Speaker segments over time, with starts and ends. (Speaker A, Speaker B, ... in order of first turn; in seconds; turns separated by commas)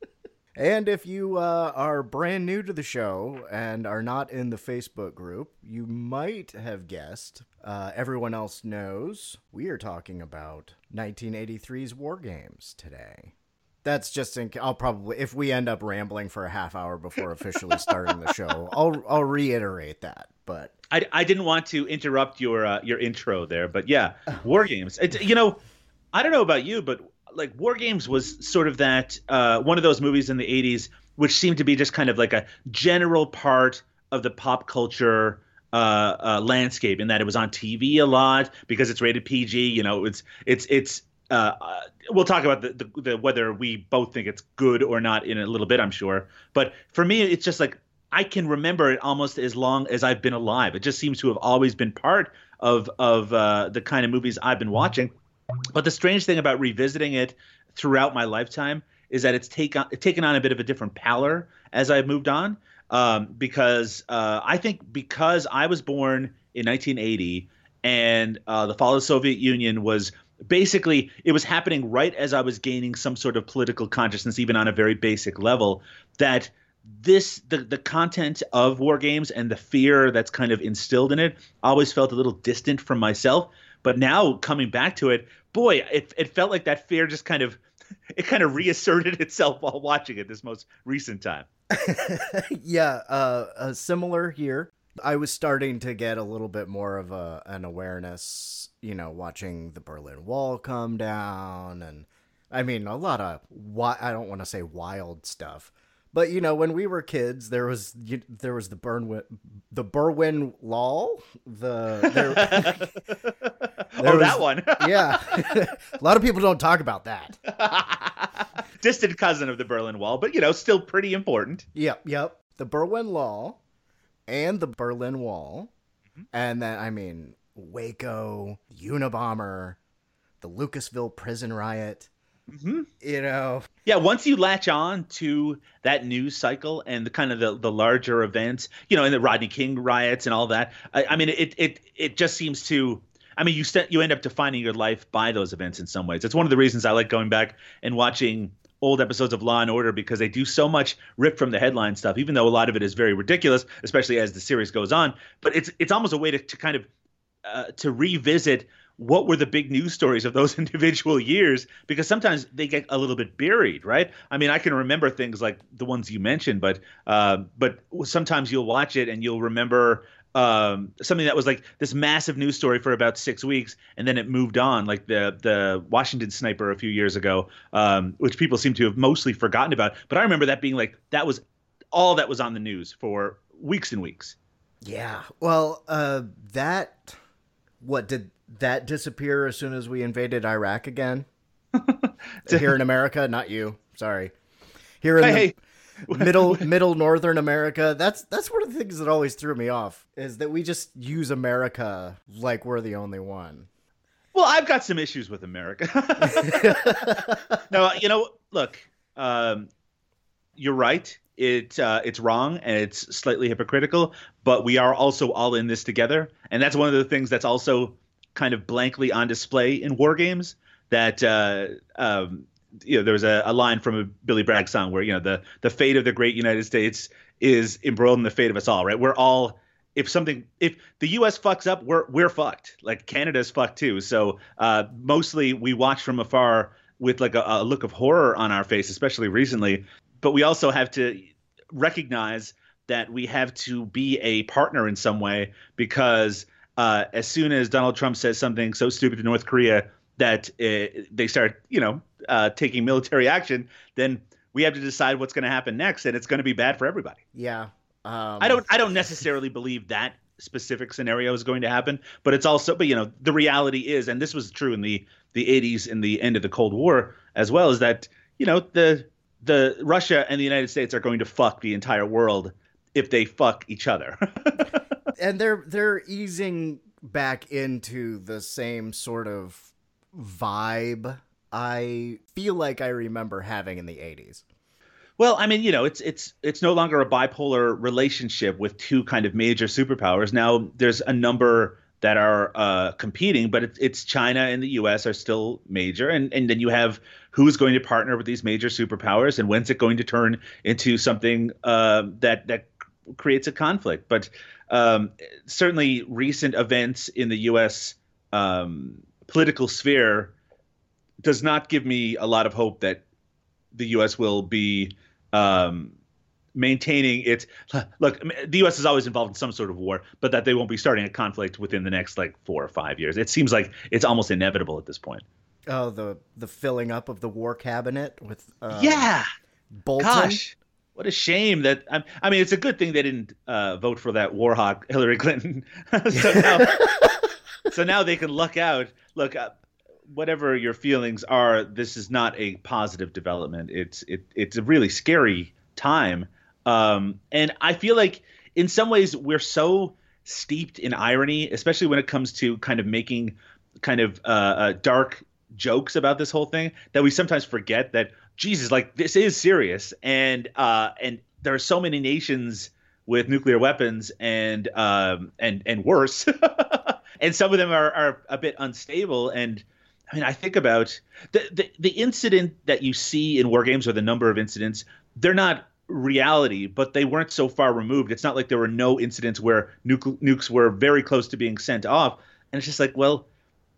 Speaker A: 0.5-13.3, Speaker A: 13.8-20.7, Speaker B: 20.9-25.6, Speaker B: 26.1-55.1, Speaker B: 55.7-87.6, Speaker B: 88.1-91.5, Speaker A: 91.7-112.9, Speaker B: 112.0-112.9, Speaker B: 113.4-115.6, Speaker A: 114.0-117.4, Speaker B: 117.5-121.7, Speaker A: 121.7-123.6, Speaker A: 124.3-125.7, Speaker A: 126.3-129.8, Speaker A: 130.4-132.1, Speaker B: 132.5-132.9, Speaker A: 133.0-133.7, Speaker B: 133.8-156.9, Speaker B: 157.4-184.3, Speaker A: 184.8-187.2, Speaker A: 187.8-191.3, Speaker B: 191.7-192.8, Speaker A: 192.4-194.3, Speaker A: 195.0-195.5, Speaker B: 195.2-195.6, Speaker B: 196.1-196.7, Speaker A: 196.1-203.7, Speaker B: 204.3-209.7, Speaker A: 206.2-207.4, Speaker B: 210.6-257.2, Speaker A: 257.3-258.7, Speaker B: 258.4-274.8, Speaker A: 275.2-284.4, Speaker B: 285.2-310.3, Speaker B: 311.2-313.0, Speaker B: 313.7-315.9, Speaker B: 316.5-325.2, Speaker A: 325.7-329.1, Speaker B: 328.7-329.2, Speaker A: 329.7-330.4, Speaker B: 330.0-336.9, Speaker A: 336.1-337.0, Speaker B: 337.7-339.5, Speaker B: 340.1-383.3